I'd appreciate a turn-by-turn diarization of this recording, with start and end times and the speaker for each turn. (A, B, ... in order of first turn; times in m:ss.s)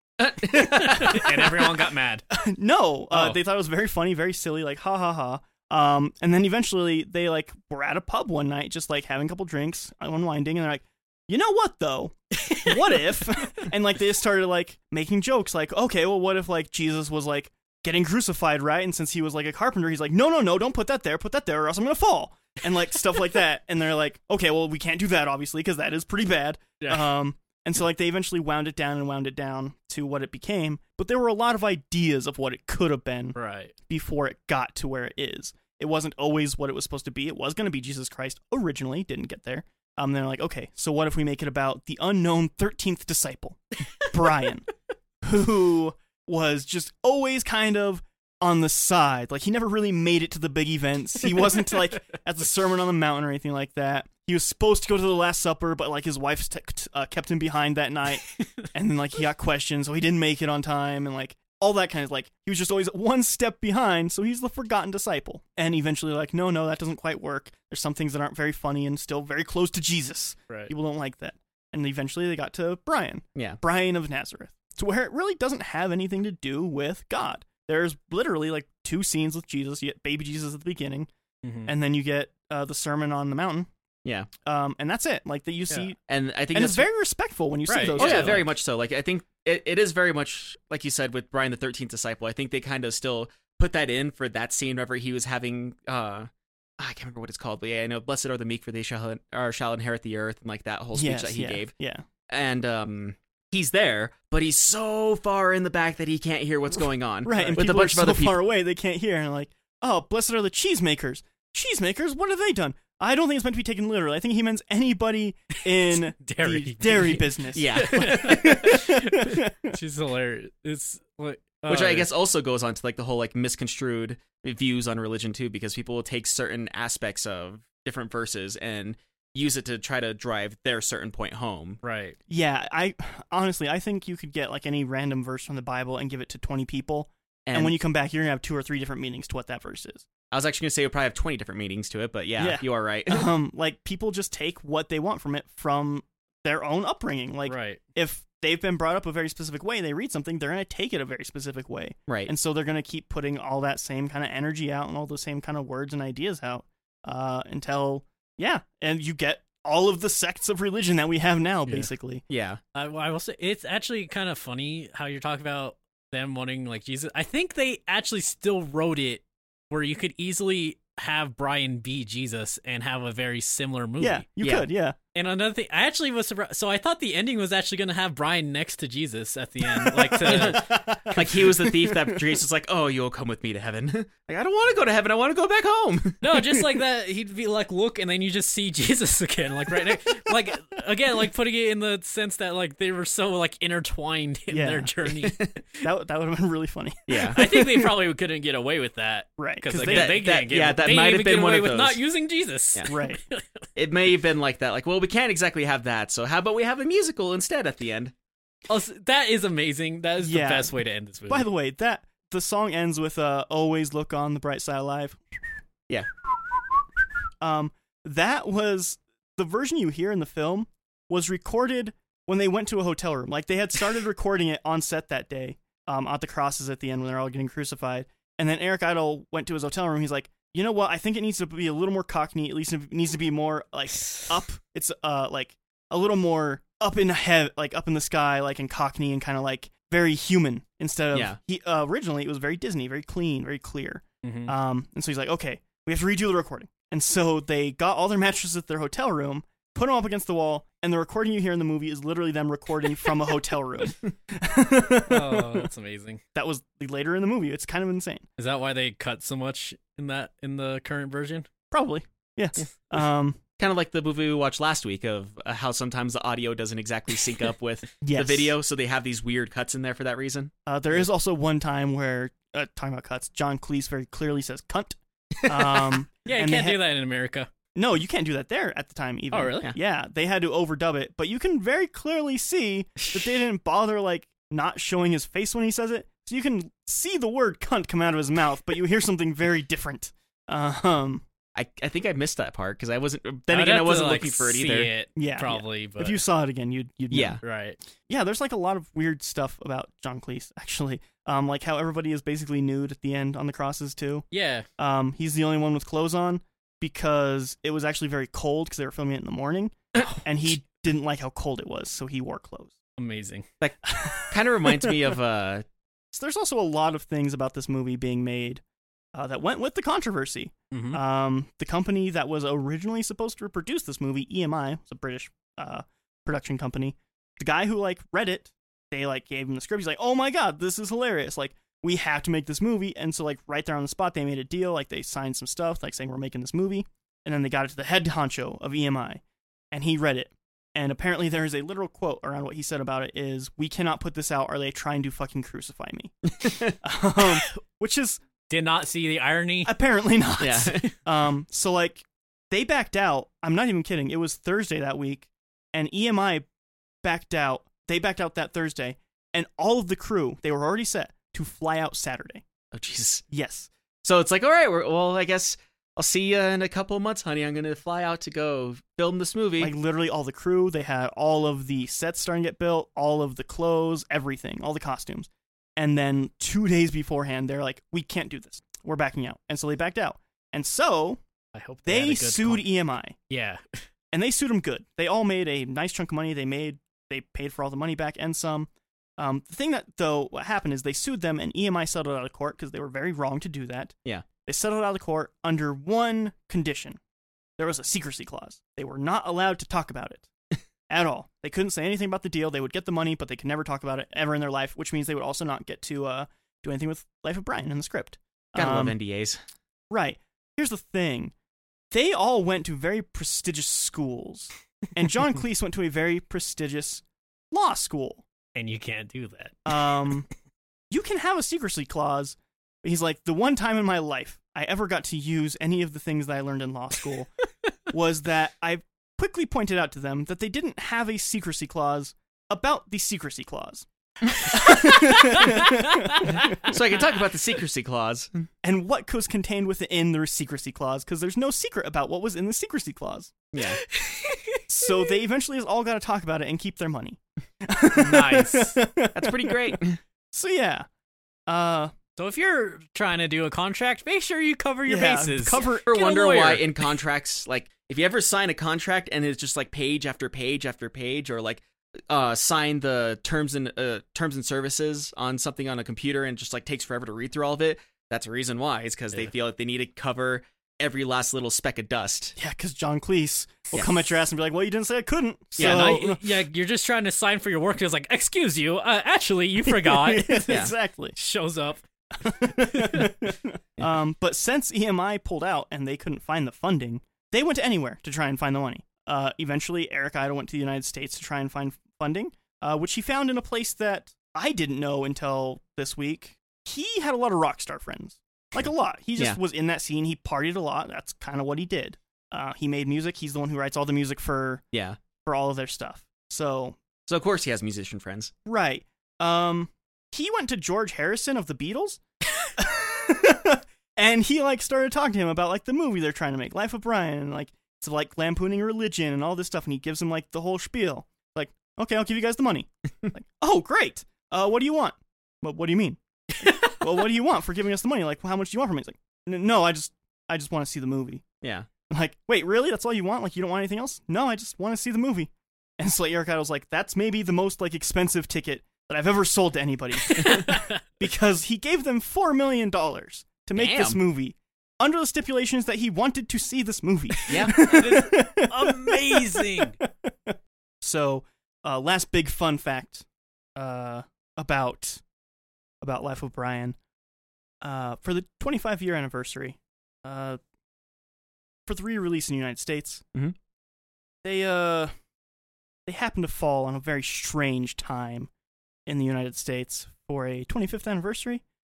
0:00.2-0:01.2 A
0:00.4-0:02.2 B
0:00.5-0:01.7 C
0:02.3-0:33.4 C
0:03.1-0:03.4 B
0:12.4-0:13.0 B
0:26.8-0:27.1 B
0:33.4-0:33.7 B
0:33.9-0:44.7 C
0:45.2-1:21.1 C
1:21.4-1:21.7 B
1:21.7-1:23.7 C
1:24.4-1:26.0 C
1:26.1-1:26.9 A
1:26.5-1:28.4 C
1:27.7-1:28.4 B
1:28.0-1:41.7 A
1:40.9-1:42.0 C
1:42.3-1:48.4 A
1:47.2-1:59.8 C
1:47.3-1:47.6 B
1:55.8-2:02.1 B
1:57.5-1:58.6 A
2:01.7-2:11.8 A
2:11.8-2:12.2 B
2:12.3-2:20.1 C
2:17.5-2:17.8 A
2:20.3-2:23.3 A
2:22.4-2:42.2 C
2:27.5-2:27.8 B
2:32.1-2:32.3 A
2:42.3-2:42.6 A
2:42.7-2:54.2 B
2:54.0-2:55.0 C
2:54.4-2:54.7 A
2:55.2-3:01.2 B
2:59.7-3:02.2 C
3:00.3-3:06.4 A
3:06.2-3:15.8 B
3:14.5-3:14.9 C
3:15.8-3:17.9 C
3:17.1-3:17.4 A
3:17.3-3:23.6 B
3:19.4-3:20.2 C
3:19.8-3:22.0 A
3:22.9-3:23.2 C
3:23.8-3:28.1 A
3:28.7-3:31.5 B
3:30.2-3:35.2 C
3:37.4-4:15.7 C
4:01.1-4:01.4 A
4:04.2-4:04.5 B
4:15.1-4:16.2 B
4:16.4-4:18.2 C
4:18.4-4:21.5 B
4:21.7-4:23.4 C
4:23.6-4:30.5 A
4:28.0-4:28.5 C
4:30.7-4:36.8 C
4:36.2-4:37.5 B
4:37.8-4:51.2 C
4:39.3-4:39.7 B
4:51.6-4:54.9 A
4:53.5-4:56.2 B
4:55.2-4:57.4 C
4:57.1-4:57.4 A
4:57.4-4:57.8 B
4:58.0-5:04.3 C
5:04.3-5:04.7 B
5:04.8-5:12.8 C
5:13.0-5:13.5 B
5:13.6-5:15.7 A
5:13.9-5:14.9 C
5:16.1-5:18.6 C
5:19.2-5:39.2 C
5:20.7-5:21.0 B
5:39.7-5:48.2 C
5:46.4-5:46.8 A
5:48.5-5:49.7 B
5:49.6-5:56.4 C
5:50.4-5:50.9 A
5:57.0-6:02.4 C
6:02.7-6:03.2 A
6:03.3-6:03.7 C
6:04.0-6:09.7 A
6:09.6-6:21.2 C
6:21.5-6:22.7 B
6:21.9-6:23.2 C
6:23.3-6:23.8 B
6:24.1-6:34.0 C
6:34.5-6:37.0 C
6:37.6-6:40.3 C
6:40.9-6:49.0 C
6:48.6-6:49.4 A
6:49.9-6:51.3 C
6:51.9-6:58.2 C
6:58.6-7:00.2 B
6:59.7-7:00.3 C
7:00.9-7:07.3 C
7:07.9-7:16.6 C
7:14.5-7:16.6 B
7:16.3-7:18.5 A
7:18.6-7:23.4 C
7:23.5-7:23.8 A
7:23.6-7:25.1 B
7:24.7-7:29.8 C
7:28.0-7:28.8 B
7:29.1-7:30.0 A
7:30.3-7:30.9 C
7:31.5-7:31.9 C
7:32.2-7:36.9 B
7:34.9-7:35.9 C
7:35.9-7:52.4 A
7:52.4-7:56.2 C
7:55.6-7:56.0 A
7:55.6-8:01.8 B
7:59.7-8:01.2 C
8:00.5-8:00.7 A
8:02.2-8:24.6 C
8:02.7-8:03.1 B
8:24.7-8:25.0 A
8:25.2-8:26.8 C
8:27.1-8:28.3 A
8:28.5-8:51.2 C
8:46.4-8:46.8 B
8:51.9-9:13.0 C
9:00.1-9:00.8 B
9:03.5-9:04.0 A
9:07.3-9:07.6 A
9:07.3-9:09.8 B
9:13.6-9:15.0 C
9:15.8-9:16.8 C
9:17.6-9:20.4 C
9:21.7-9:23.0 C
9:24.2-9:24.9 C
9:25.9-9:28.3 C
9:28.9-9:31.4 C